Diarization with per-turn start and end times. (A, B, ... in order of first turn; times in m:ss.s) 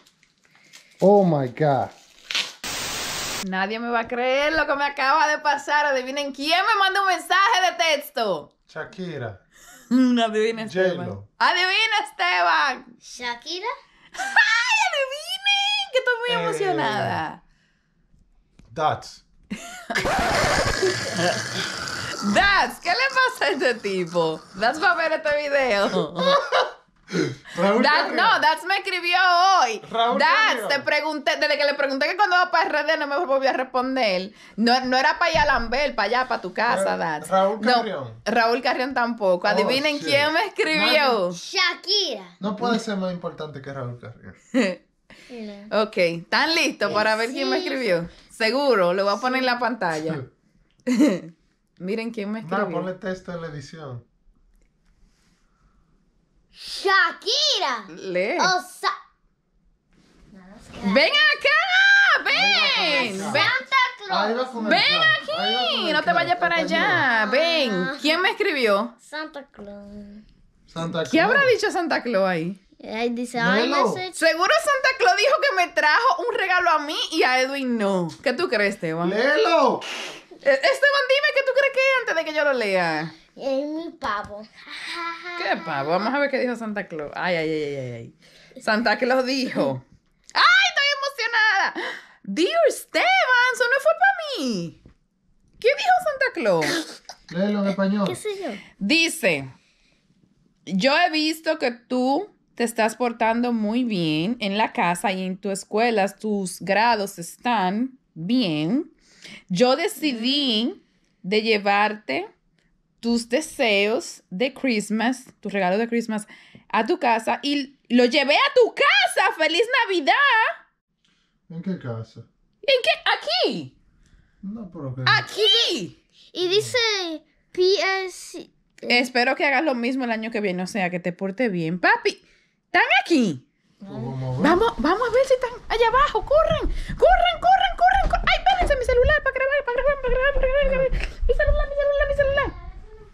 0:01.0-0:01.9 A
0:03.4-0:08.5 B
0:08.7-0:09.4 A
0:09.9-0:12.9 B
0:10.6-0:11.3 A
0:13.0-0:13.7 C
0:14.2-0:17.4 B
0:16.3-0:17.2 A
0:18.7-0:19.2 A
0:21.0-0:21.4 B
0:22.2-0:26.4 B
0:26.0-0:28.4 A
0:27.7-0:41.4 B
0:29.8-0:30.9 A
0:36.7-0:38.2 A
0:39.4-0:41.2 A
0:41.3-0:42.4 C
0:42.4-0:44.4 A
0:44.5-0:44.8 B
0:45.3-0:45.7 C
0:45.7-0:50.2 B
0:46.8-0:48.0 C
0:49.1-0:49.6 C
0:50.9-0:52.9 B
0:52.4-0:54.0 A
0:56.6-0:58.9 C
0:57.9-0:58.5 B
1:00.3-1:01.2 C
1:00.8-1:03.6 B
1:02.3-1:03.6 A
1:02.8-1:04.8 C
1:04.1-1:07.0 A
1:04.6-1:08.9 B
1:06.9-1:08.2 C
1:09.0-1:10.2 C
1:10.7-1:11.6 A
1:11.1-1:12.6 B
1:12.8-1:14.2 C
1:13.4-1:14.0 A
1:14.2-1:19.2 B
1:19.0-1:19.8 A
1:20.3-1:23.1 B
1:23.4-1:25.9 C
1:25.4-1:29.8 B
1:30.3-1:34.8 B
1:35.6-1:36.8 B
1:37.3-1:38.2 A
1:38.0-1:38.6 C
1:38.8-1:39.5 B
1:40.7-1:48.9 B
1:49.5-1:52.3 B
1:53.0-2:00.6 B
2:01.5-2:02.2 A
2:02.6-2:03.7 B
2:04.4-2:05.3 A
2:05.1-2:06.0 B
2:05.3-2:05.8 C
2:06.3-2:09.1 C
2:06.4-2:06.7 A
2:08.9-2:13.4 B
2:13.8-2:14.7 A
2:13.9-2:14.2 C
2:14.4-2:22.5 B
2:20.6-2:20.9 A